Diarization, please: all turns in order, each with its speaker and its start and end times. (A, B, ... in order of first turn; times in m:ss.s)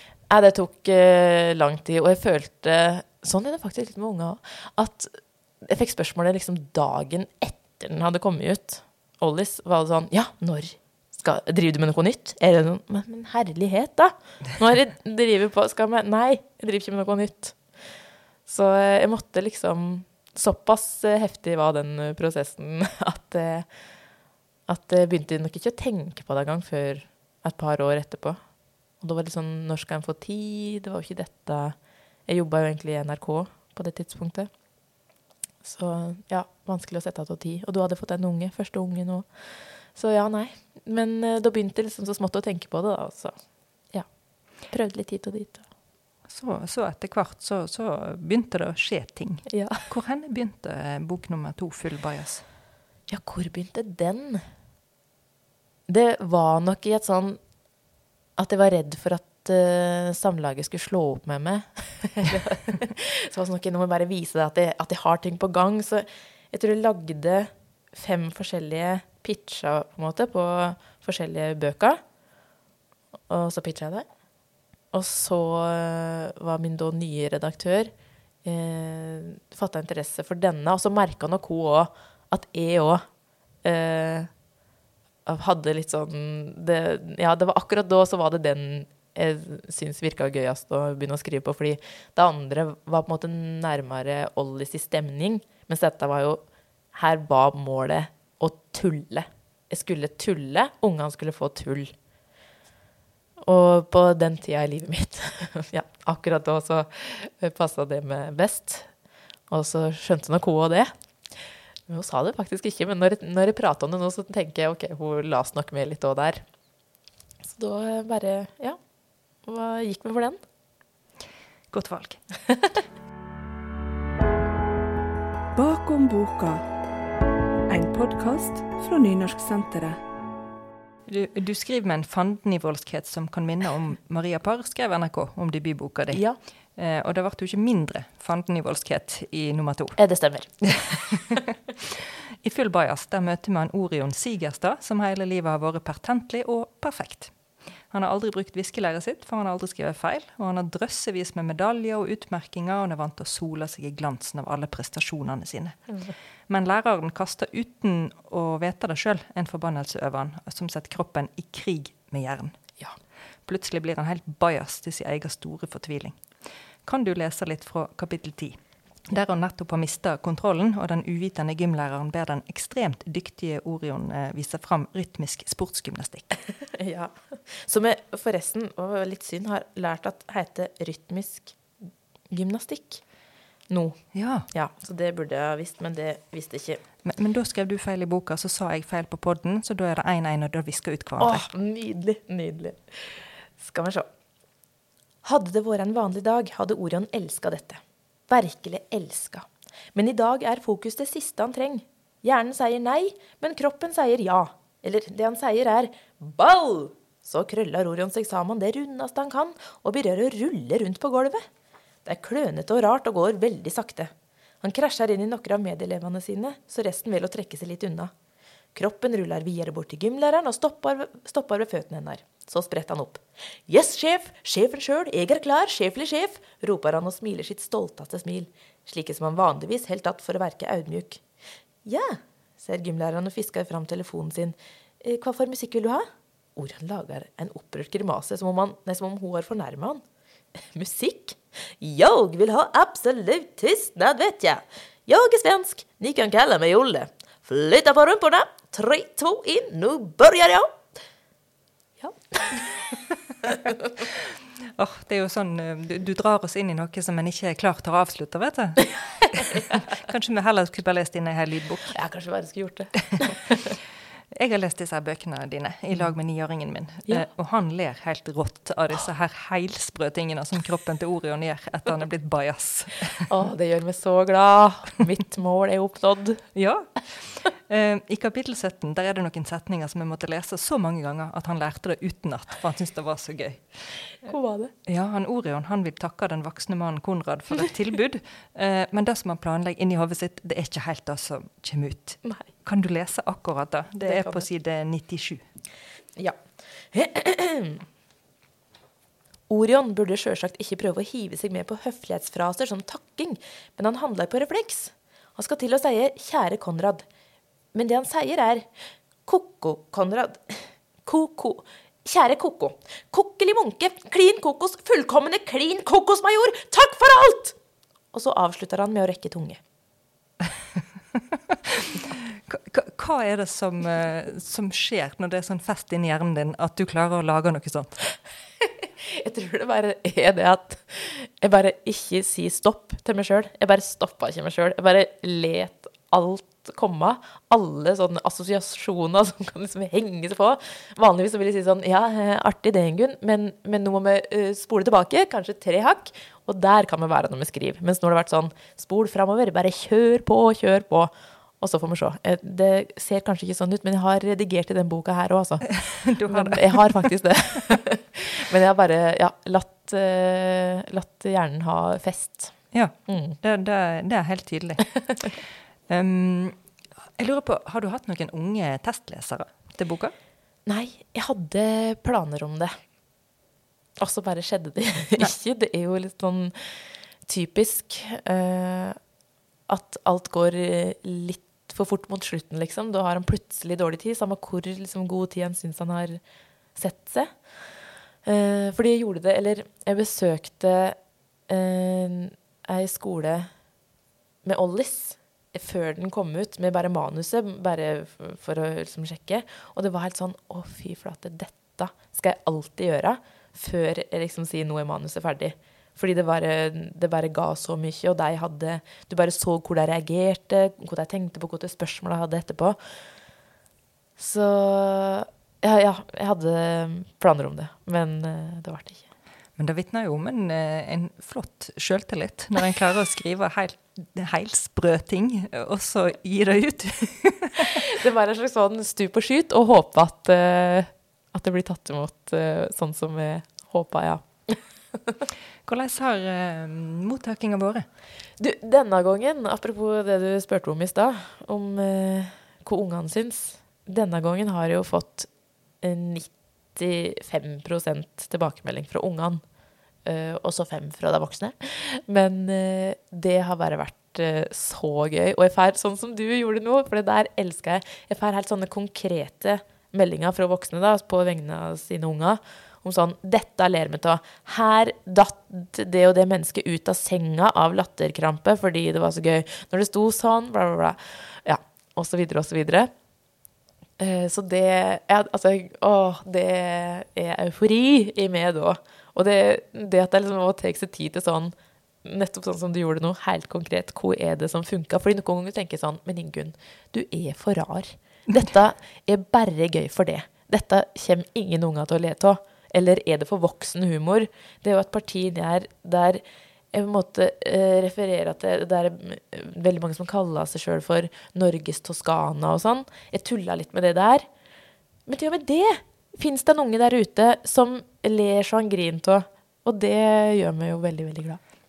0:00.3-0:17.8 A
0:18.4-0:23.7 A
0:24.7-0:34.5 A
0:35.6-0:45.6 A
0:46.3-0:52.4 B
0:49.5-0:49.8 A
0:53.1-0:54.4 A
0:55.9-0:57.4 A
0:58.4-1:12.0 A
1:13.3-1:14.0 A
1:14.9-1:17.9 A
1:18.4-1:23.0 A
1:23.6-1:24.3 A
1:25.2-1:41.9 A
1:43.4-1:48.9 A
1:49.5-1:56.4 A
1:57.4-1:58.8 A
1:59.4-2:00.4 A
2:01.7-2:02.2 B
2:05.5-2:06.6 C
2:07.7-2:10.0 C
2:11.0-2:20.0 B
2:16.1-2:16.4 A
2:20.0-2:21.1 A
2:21.8-2:27.4 B
2:27.9-2:35.9 B
2:36.5-2:42.6 B
2:43.4-2:46.3 B
2:46.8-2:56.3 B
2:56.7-3:01.7 A
3:02.3-3:03.0 A
3:03.7-3:06.8 A
3:04.1-3:04.5 B
3:07.0-3:11.5 B
3:11.2-3:14.1 A
3:15.2-3:31.4 A
3:32.0-3:38.1 A
3:38.7-3:51.2 A
3:51.8-4:00.0 A
4:00.7-4:10.7 A
4:12.0-4:13.0 A
4:14.0-4:21.9 B
4:21.9-4:23.7 A
4:24.3-4:33.3 B
4:33.3-4:36.4 A
4:36.5-4:43.7 B
4:44.2-4:44.7 A
4:44.8-4:55.4 B
4:54.0-4:54.4 A
4:56.9-4:57.8 A
4:59.5-5:07.0 A
5:07.7-5:08.7 A
5:09.2-5:17.6 A
5:18.1-5:19.6 A
5:21.1-5:28.0 B
5:29.0-6:02.5 A
5:55.8-5:56.9 B
6:02.7-6:06.6 B
6:03.1-6:03.4 A
6:07.2-6:10.1 B
6:10.6-6:12.8 A
6:14.0-6:19.0 A
6:19.7-6:26.2 A
6:26.7-6:27.5 A
6:28.2-6:31.0 A
6:31.5-6:33.5 A
6:34.4-6:52.8 A
6:54.2-6:59.0 A
6:59.6-7:07.8 B
7:07.8-7:15.1 A
7:15.6-7:17.8 B
7:18.4-7:29.4 A
7:30.0-7:52.9 A
7:54.0-8:16.2 A
8:16.7-8:24.3 A
8:25.0-8:31.4 A